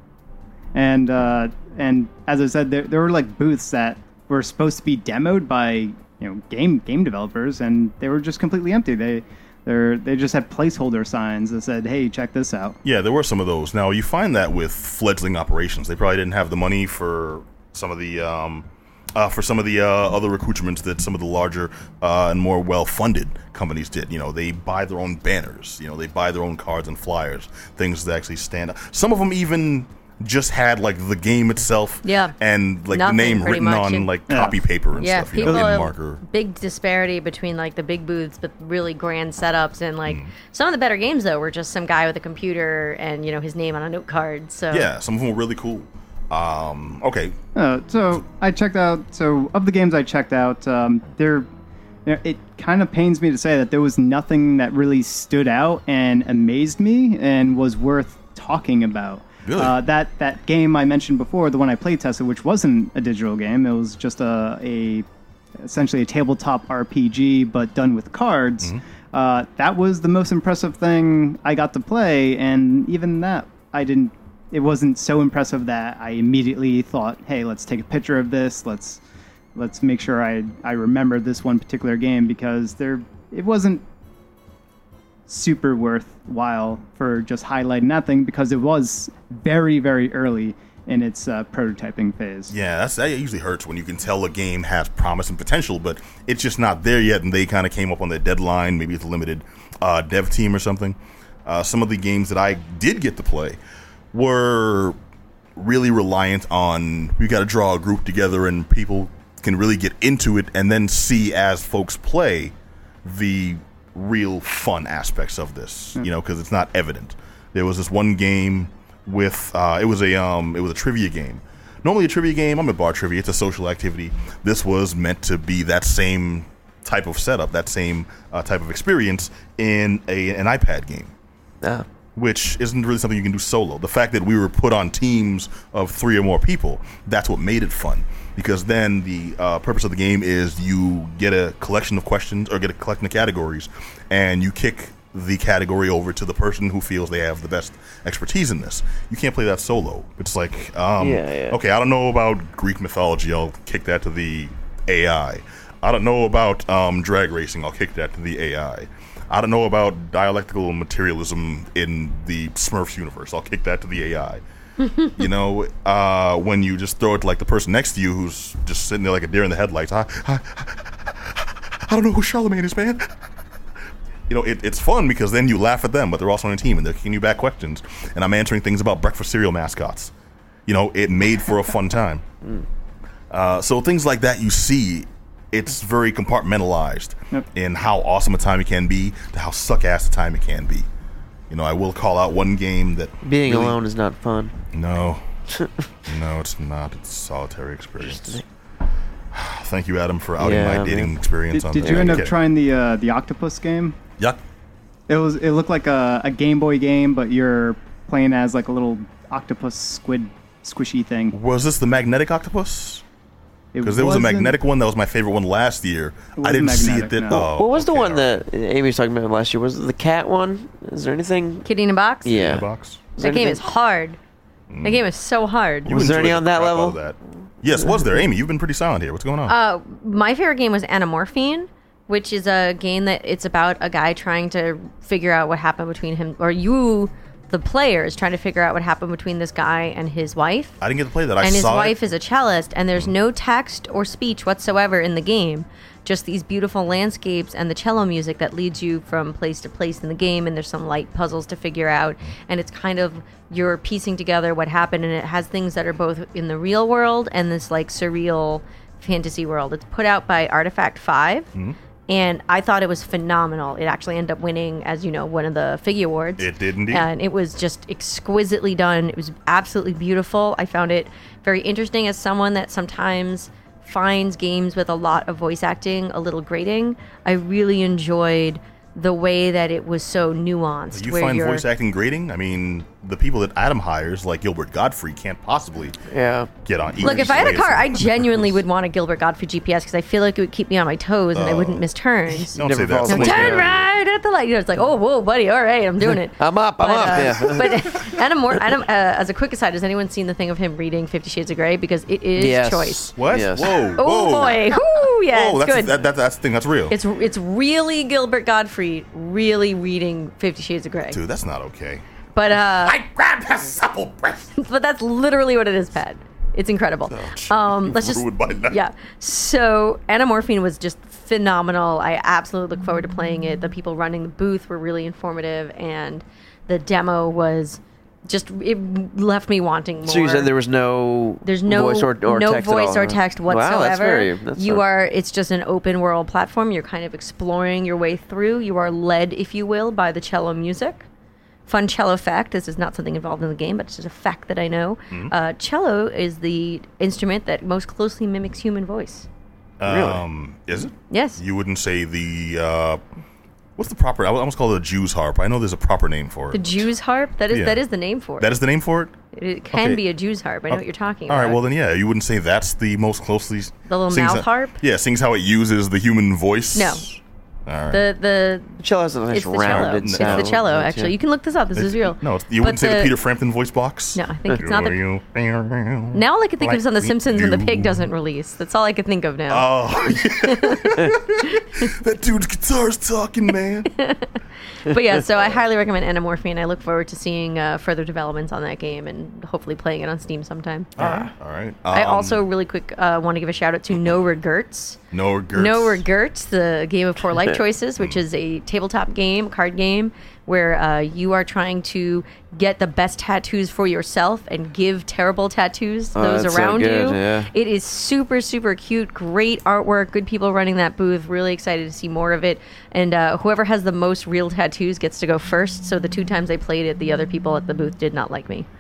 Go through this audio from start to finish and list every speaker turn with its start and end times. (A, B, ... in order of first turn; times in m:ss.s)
0:00.7-0:12.8 A
0:12.8-0:36.2 B
0:32.0-0:32.4 C
0:32.9-0:34.1 C
0:34.3-0:34.6 A
0:35.0-0:44.9 C
0:35.4-0:35.8 A
0:44.7-0:47.4 B
0:47.6-0:51.5 A
0:52.0-1:05.0 A
0:59.4-0:59.8 B
1:05.6-1:19.0 A
1:19.6-1:23.8 A
1:25.3-1:32.5 A
1:32.5-1:43.6 B
1:44.1-1:45.0 B
1:45.6-2:11.1 B
2:12.2-2:44.4 B
2:31.0-2:31.6 D
2:45.0-2:53.1 B
2:54.3-3:00.1 B
3:00.7-3:02.2 B
3:03.3-3:10.9 B
3:11.5-3:13.8 B
3:13.2-3:14.6 D
3:14.7-3:15.2 B
3:15.6-3:15.9 D
3:16.1-3:18.4 B
3:18.0-3:18.4 D
3:19.3-3:22.4 B
3:20.4-3:21.1 D
3:21.5-3:24.0 A
3:21.8-3:22.2 D
3:25.1-3:31.4 A
3:31.3-3:33.0 B
3:33.7-3:34.6 A
3:33.8-3:38.4 B
3:36.4-3:37.4 A
3:37.3-3:41.7 D
3:41.6-3:42.4 C
3:42.2-3:43.6 D
3:42.3-3:43.0 B
3:43.2-3:44.2 C
3:44.7-3:45.0 B
3:44.8-3:45.9 C
3:45.9-3:47.0 D
3:45.9-3:49.6 B
3:49.5-4:00.8 C
4:00.8-4:02.0 B
4:01.4-4:21.5 C
4:22.1-4:41.6 C
4:26.4-4:27.1 B
4:40.9-4:46.0 B
4:46.1-4:46.5 D
4:46.6-4:48.5 B
4:47.0-5:03.1 C
4:51.3-4:51.8 B
4:52.5-4:53.7 D
4:52.6-4:53.9 B
4:56.4-4:58.2 D
5:02.4-5:03.8 D
5:03.2-5:04.8 B
5:04.0-5:06.1 C
5:05.3-5:07.0 B
5:06.9-5:11.2 C
5:11.1-5:12.0 B
5:12.4-5:13.0 C
5:12.8-5:14.5 B
5:14.6-5:30.5 C
5:17.1-5:18.8 B
5:30.0-5:34.8 D
5:31.4-5:41.0 C
5:41.7-5:49.3 C
5:49.8-5:53.0 B
5:49.8-5:50.2 D
5:51.1-5:51.4 C
5:53.8-5:56.9 B
5:56.5-5:58.5 C
5:57.5-5:57.8 B
5:58.4-5:59.1 B
5:59.3-6:01.6 C
5:59.7-6:00.0 B
6:00.7-6:08.0 B
6:03.9-6:04.8 C
6:06.8-6:07.1 C
6:07.9-6:08.8 C
6:08.8-6:11.1 D
6:09.3-6:13.1 C
6:09.6-6:10.6 B
6:11.8-6:18.1 B
6:14.2-6:15.0 C
6:16.1-6:21.9 C
6:19.5-6:23.9 B
6:24.0-6:24.3 C
6:24.8-6:31.3 C
6:31.0-6:32.4 B
6:31.9-6:35.0 C
6:35.1-6:36.0 B
6:35.5-6:58.7 C
6:46.2-6:47.5 D